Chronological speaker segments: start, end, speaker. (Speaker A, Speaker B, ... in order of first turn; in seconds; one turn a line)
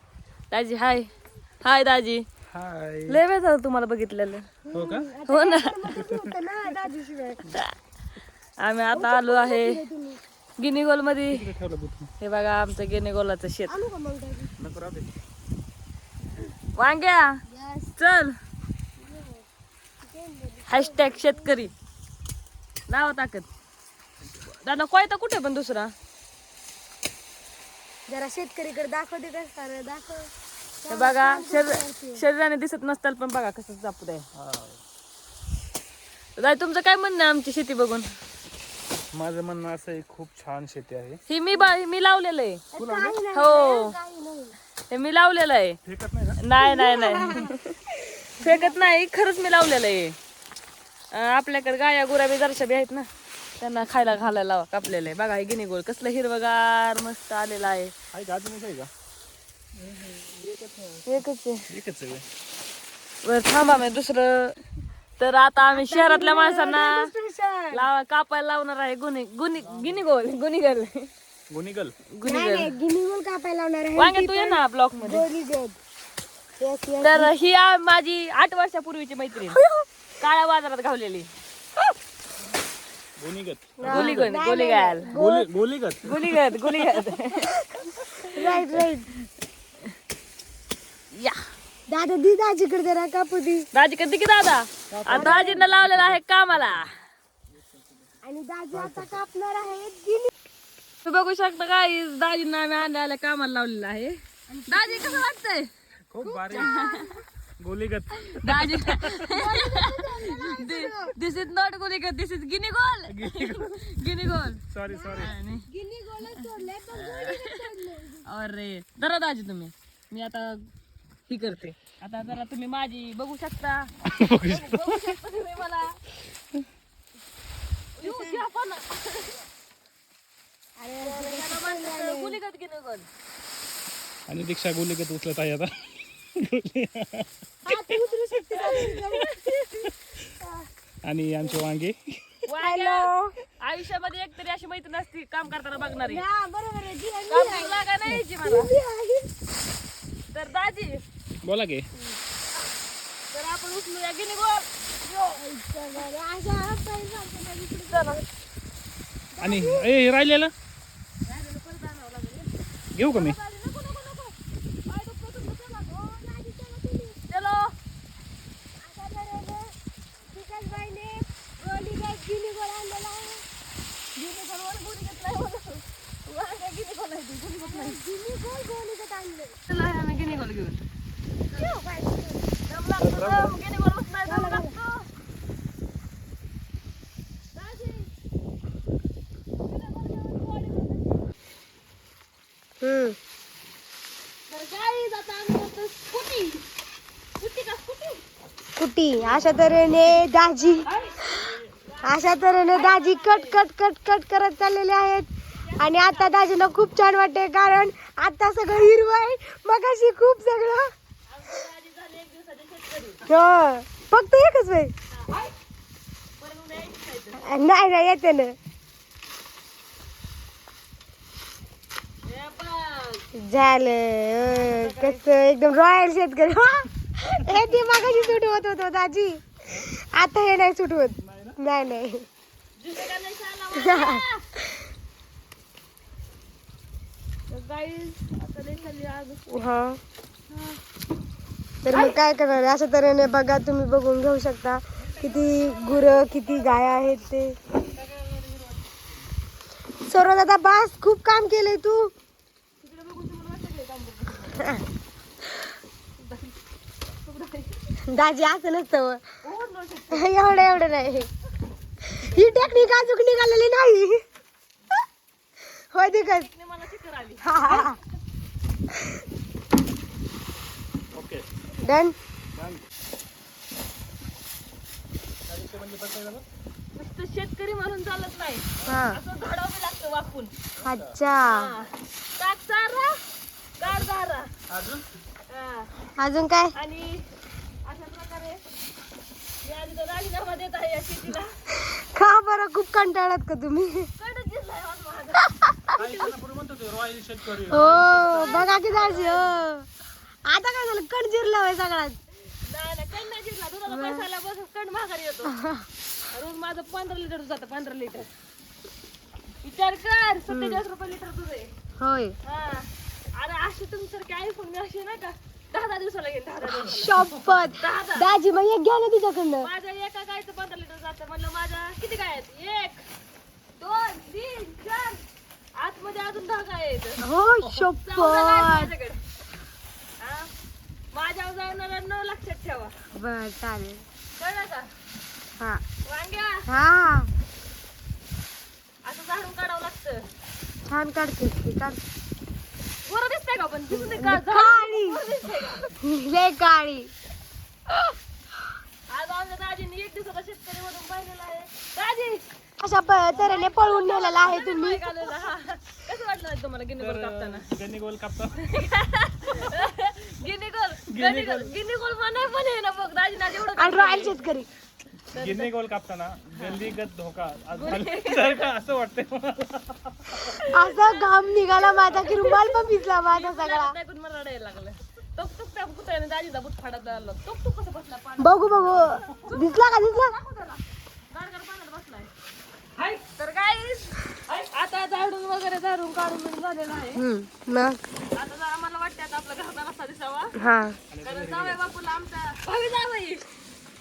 Speaker A: 0.5-1.1
Speaker A: 1.6-2.2
Speaker B: 2.5-3.2
Speaker A: 3.1-4.5
Speaker C: 4.7-7.5
Speaker B: 4.7-5.1
Speaker A: 5.3-6.0
Speaker B: 6.0-6.3
Speaker A: 7.5-7.7
Speaker A: 8.6-9.8
Speaker C: 8.9-10.2
Speaker A: 10.6-11.5
Speaker B: 11.3-12.1
Speaker A: 12.2-13.8
Speaker C: 13.7-14.5
Speaker B: 14.6-15.1
Speaker A: 16.7-17.4
Speaker C: 17.5-17.9
Speaker A: 18.0-18.4
Speaker C: 19.0-19.4
Speaker C: 20.0-21.6
Speaker A: 20.7-21.7
Speaker A: 22.9-23.5
Speaker A: 24.5-25.9
Speaker C: 28.1-30.3
Speaker C: 30.8-32.2
Speaker A: 30.9-34.2
Speaker B: 34.3-34.8
Speaker A: 36.4-38.1
Speaker B: 39.1-41.2
Speaker A: 41.3-42.6
Speaker C: 42.7-44.5
Speaker B: 42.8-43.2
Speaker A: 43.3-43.9
Speaker A: 44.9-45.8
Speaker B: 45.8-46.4
Speaker A: 46.4-47.7
Speaker C: 46.6-48.8
Speaker A: 48.4-50.2
Speaker A: 51.1-53.1
Speaker A: 53.6-57.9
Speaker B: 58.1-58.9
Speaker B: 59.8-61.1
Speaker A: 61.0-61.6
Speaker B: 61.7-62.2
Speaker A: 63.2-64.6
Speaker A: 65.2-67.1
Speaker C: 65.7-67.8
Speaker A: 67.7-71.1
Speaker B: 69.6-70.0
Speaker B: 71.5-71.9
Speaker A: 72.1-72.7
Speaker C: 72.2-75.8
Speaker A: 74.0-75.3
Speaker C: 76.6-77.3
Speaker A: 77.0-79.6
Speaker C: 79.5-79.8
Speaker A: 80.2-81.3
Speaker B: 83.2-84.3
Speaker C: 83.8-85.5
Speaker A: 83.8-85.1
Speaker B: 85.1-87.0
Speaker A: 86.0-87.7
Speaker C: 88.3-89.1
Speaker A: 91.1-91.4
Speaker C: 91.9-93.7
Speaker A: 93.7-96.9
Speaker B: 94.9-96.2
Speaker C: 95.1-95.7
Speaker B: 97.6-98.0
Speaker C: 98.2-100.3
Speaker B: 98.7-99.2
Speaker A: 101.0-105.7
Speaker C: 104.5-105.2
Speaker B: 106.1-106.8
Speaker C: 106.2-107.2
Speaker A: 106.5-107.1
Speaker B: 107.6-109.3
Speaker A: 108.3-114.6
Speaker C: 109.2-111.2
Speaker B: 113.1-113.8
Speaker B: 114.7-115.3
Speaker C: 114.9-118.2
Speaker A: 115.2-115.7
Speaker A: 116.9-117.7
Speaker A: 118.2-120.7
Speaker A: 121.3-126.0
Speaker B: 124.1-125.1
Speaker A: 128.0-129.4
Speaker C: 128.0-128.4
Speaker C: 130.8-132.4
Speaker A: 131.0-133.1
Speaker B: 134.3-138.1
Speaker C: 137.6-139.8
Speaker A: 138.5-139.8
Speaker C: 140.4-140.7
Speaker B: 141.0-142.4
Speaker A: 142.5-146.2
Speaker C: 142.6-143.3
Speaker C: 145.8-147.9
Speaker A: 147.3-148.7
Speaker C: 148.4-149.3
Speaker A: 150.3-151.0
Speaker B: 151.4-151.9
Speaker A: 153.3-155.4
Speaker C: 155.3-158.2
Speaker A: 157.9-158.2
Speaker C: 159.3-159.9
Speaker B: 159.4-160.5
Speaker A: 161.2-162.5
Speaker B: 162.9-163.4
Speaker A: 163.1-165.9
Speaker C: 165.8-167.2
Speaker A: 167.3-167.7
Speaker C: 168.8-169.7
Speaker C: 170.3-173.4
Speaker A: 174.2-178.0
Speaker C: 177.6-179.6
Speaker A: 179.7-180.8
Speaker C: 181.5-182.5
Speaker A: 181.5-181.8
Speaker A: 182.7-185.1
Speaker B: 183.0-183.5
Speaker C: 184.2-184.8
Speaker A: 187.5-188.1
Speaker A: 189.7-191.2
Speaker C: 192.8-193.2
Speaker A: 194.5-196.6
Speaker A: 197.4-198.2
Speaker C: 198.8-201.5
Speaker B: 199.2-200.2
Speaker A: 200.8-201.3
Speaker B: 201.4-201.7
Speaker A: 201.8-203.6
Speaker C: 202.0-210.9
Speaker A: 205.6-206.4
Speaker A: 211.3-213.3
Speaker C: 213.3-214.9
Speaker A: 215.1-215.5
Speaker A: 216.4-217.5
Speaker C: 217.3-218.5
Speaker A: 222.2-223.2
Speaker C: 223.3-232.2
Speaker A: 224.4-225.2
Speaker A: 227.8-228.4
Speaker B: 231.2-231.6
Speaker A: 232.8-234.4
Speaker C: 233.7-234.8
Speaker A: 237.5-239.5
Speaker C: 239.5-240.0
Speaker A: 240.5-240.8
Speaker C: 241.8-247.6
Speaker A: 245.1-246.2
Speaker A: 248.0-248.5
Speaker C: 250.0-252.1
Speaker A: 252.8-254.8
Speaker A: 256.2-256.6
Speaker A: 257.2-257.9
Speaker C: 258.1-259.2
Speaker A: 259.4-260.3
Speaker C: 260.1-261.3
Speaker C: 262.1-264.2
Speaker A: 262.2-262.9
Speaker C: 265.9-266.5
Speaker A: 266.1-268.0
Speaker C: 267.4-268.0
Speaker B: 271.1-271.4
Speaker C: 271.8-272.1
Speaker B: 272.6-272.8
Speaker B: 275.5-276.4
Speaker A: 276.9-280.5
Speaker C: 278.8-279.2
Speaker B: 280.8-281.1
Speaker C: 280.8-281.7
Speaker A: 281.4-283.2
Speaker A: 283.8-284.5
Speaker B: 284.7-285.0
Speaker A: 285.5-285.9
Speaker C: 286.2-286.7
Speaker A: 286.7-287.3
Speaker A: 287.8-288.6
Speaker A: 289.6-291.5
Speaker C: 291.7-294.1
Speaker A: 294.2-295.5
Speaker C: 295.5-296.0
Speaker B: 295.9-298.6
Speaker C: 297.7-299.9
Speaker A: 298.2-299.6
Speaker C: 300.4-302.2
Speaker A: 302.6-305.5
Speaker C: 303.9-304.2
Speaker C: 305.4-305.9
Speaker A: 306.3-308.3
Speaker A: 309.6-311.7
Speaker C: 310.5-310.8
Speaker C: 312.0-312.4
Speaker A: 312.4-317.2
Speaker C: 316.6-319.7
Speaker A: 317.8-318.3
Speaker A: 319.6-323.0
Speaker A: 323.8-325.2
Speaker A: 325.7-329.2
Speaker C: 327.2-328.9
Speaker A: 330.2-330.5
Speaker A: 331.1-332.9
Speaker C: 333.1-334.0
Speaker A: 334.4-334.9
Speaker A: 336.1-336.6
Speaker C: 336.7-337.3
Speaker A: 339.0-340.3
Speaker C: 340.9-342.0
Speaker A: 343.0-345.9
Speaker C: 343.9-345.2
Speaker C: 345.9-347.1
Speaker A: 349.1-352.4
Speaker C: 352.8-355.3
Speaker A: 353.3-357.7
Speaker B: 357.0-358.7
Speaker A: 358.6-364.4
Speaker B: 361.1-361.7
Speaker C: 363.8-364.7
Speaker A: 365.3-365.7
Speaker B: 365.3-370.6
Speaker A: 367.7-368.6
Speaker A: 370.4-382.3
Speaker C: 370.7-373.9
Speaker C: 378.4-380.4
Speaker A: 383.0-387.2
Speaker C: 387.1-388.0
Speaker A: 388.3-390.6
Speaker C: 390.6-391.0
Speaker B: 391.1-391.8
Speaker A: 391.2-393.5